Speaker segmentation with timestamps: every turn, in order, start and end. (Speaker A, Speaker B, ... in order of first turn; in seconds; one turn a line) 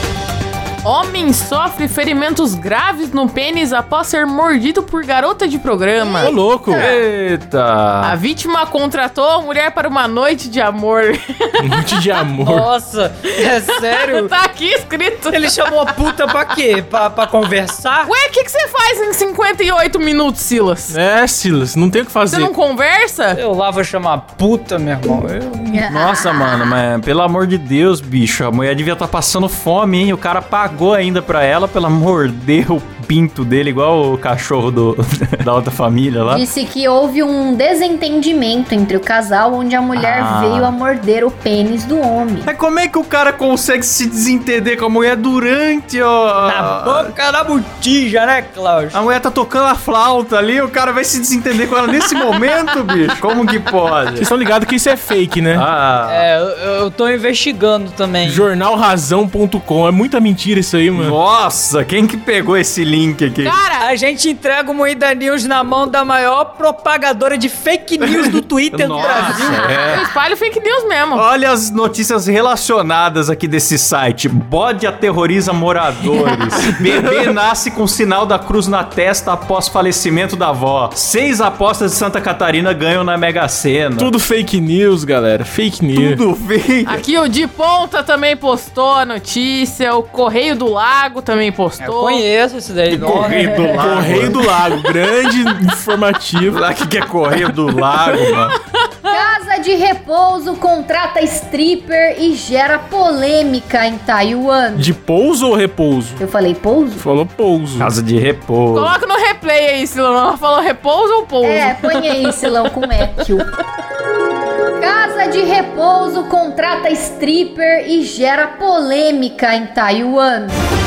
Speaker A: 0.8-6.3
Speaker B: 6.0-6.3
Speaker C: 6.2-6.9
Speaker D: 6.8-8.2
Speaker A: 8.0-12.2
Speaker C: 11.6-12.7
Speaker E: 12.4-14.3
Speaker A: 13.5-15.8
Speaker E: 15.3-18.1
Speaker A: 18.0-20.9
Speaker C: 20.9-22.5
Speaker A: 22.3-23.4
Speaker E: 23.3-25.6
Speaker B: 25.6-26.8
Speaker D: 25.8-36.5
Speaker B: 36.3-42.5
Speaker D: 39.9-40.7
Speaker D: 42.4-47.1
Speaker E: 46.4-49.0
Speaker D: 48.9-54.3
Speaker C: 54.1-55.7
Speaker D: 55.5-56.3
Speaker E: 56.0-58.5
Speaker C: 58.2-61.2
Speaker D: 60.9-63.6
Speaker A: 63.4-63.9
Speaker E: 63.6-69.7
Speaker D: 68.7-70.0
Speaker A: 69.0-71.2
Speaker D: 71.1-84.1
Speaker C: 76.1-77.2
Speaker C: 84.0-86.2
Speaker D: 85.9-87.0
Speaker A: 86.8-92.2
Speaker E: 91.8-93.9
Speaker D: 92.9-94.8
Speaker C: 93.0-96.6
Speaker D: 96.5-98.5
Speaker A: 97.3-98.5
Speaker B: 99.1-104.9
Speaker C: 104.8-106.2
Speaker B: 106.2-107.0
Speaker C: 107.0-107.9
Speaker D: 107.8-108.9
Speaker A: 108.7-112.3
Speaker B: 111.4-113.5
Speaker B: 114.8-120.6